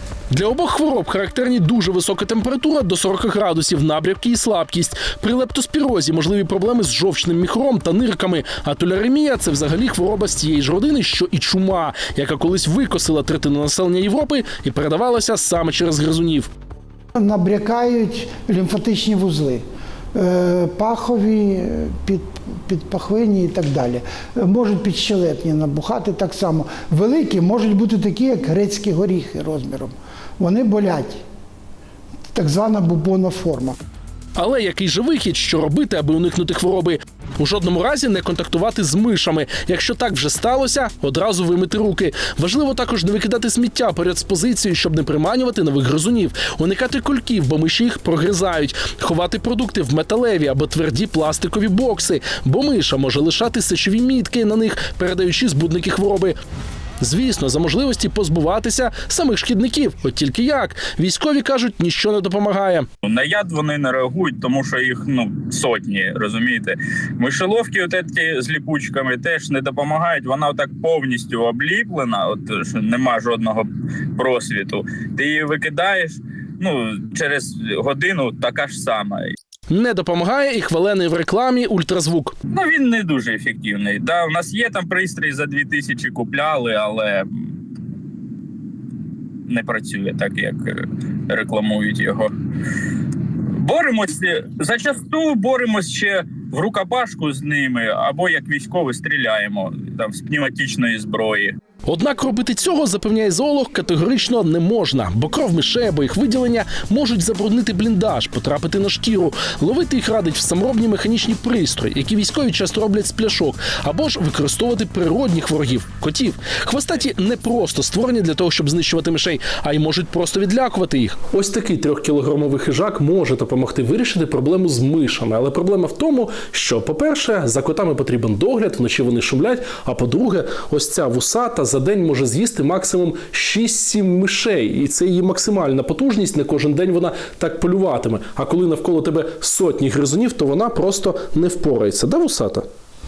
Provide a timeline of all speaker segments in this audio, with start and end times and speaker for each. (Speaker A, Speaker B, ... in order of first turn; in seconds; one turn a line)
Speaker A: 0.3-16.5
Speaker B: 17.1-19.6
Speaker B: 20.1-31.2
Speaker B: 32.3-33.7
Speaker A: 34.4-56.4
Speaker A: 57.0-62.9
Speaker C: 63.0-79.3
Speaker A: 79.7-82.3
Speaker C: 82.5-87.6
Speaker C: 89.5-92.3
Speaker C: 93.6-101.5
Speaker A: 101.8-142.7